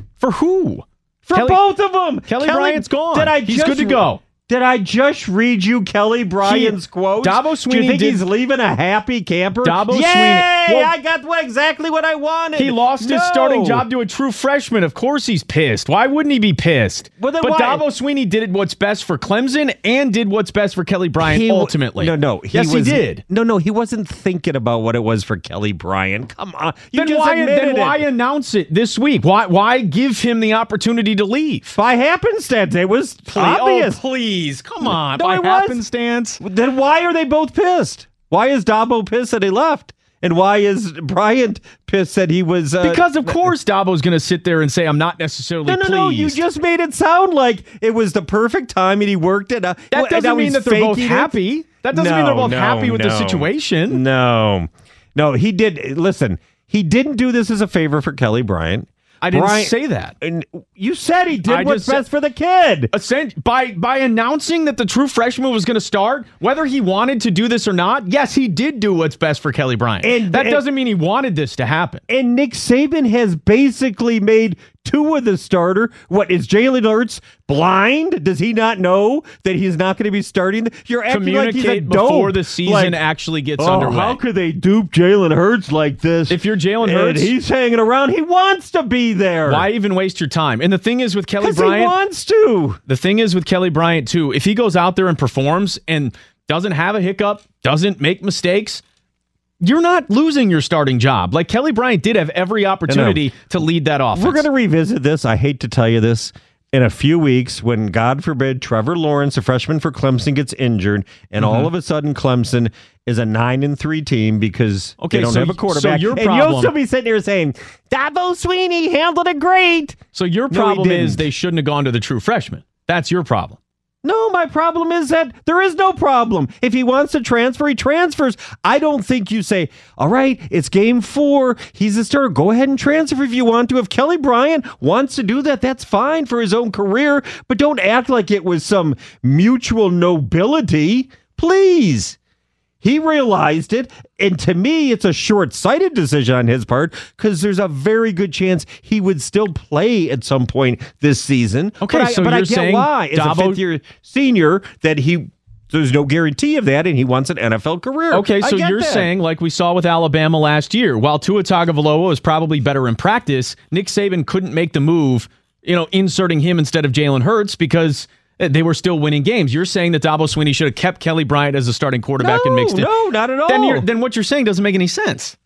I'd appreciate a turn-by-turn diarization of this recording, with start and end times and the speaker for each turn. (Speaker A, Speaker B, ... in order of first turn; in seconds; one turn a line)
Speaker A: 0.2-1.6
Speaker B: 1.2-13.9
Speaker A: 2.2-4.2
Speaker A: 6.4-8.2
Speaker A: 9.6-10.9
Speaker A: 12.6-23.2
Speaker B: 17.2-17.8
Speaker B: 21.2-28.0
Speaker A: 26.9-31.8
Speaker B: 31.7-35.8
Speaker A: 33.3-34.0
Speaker A: 34.6-36.4
Speaker B: 36.4-43.5
Speaker A: 42.8-46.4
Speaker B: 45.7-51.4
Speaker A: 49.9-54.0
Speaker B: 51.9-62.9
Speaker A: 59.2-60.1
Speaker A: 61.4-62.0
Speaker A: 62.9-72.0
Speaker B: 70.0-70.6
Speaker B: 72.1-83.0
Speaker A: 81.1-84.2
Speaker B: 83.6-89.7
Speaker A: 86.3-87.3
Speaker A: 89.5-92.0
Speaker B: 91.4-92.8
Speaker A: 92.9-98.8
Speaker A: 99.6-104.5
Speaker B: 102.9-103.3
Speaker B: 104.1-120.0
Speaker A: 111.4-111.7
Speaker A: 115.0-116.8
Speaker A: 120.1-123.6
Speaker B: 120.5-121.3
Speaker B: 124.0-142.2
Speaker B: 142.8-159.1
Speaker A: 151.8-153.6
Speaker A: 158.1-172.9
Speaker B: 172.2-173.9
Speaker A: 173.5-175.4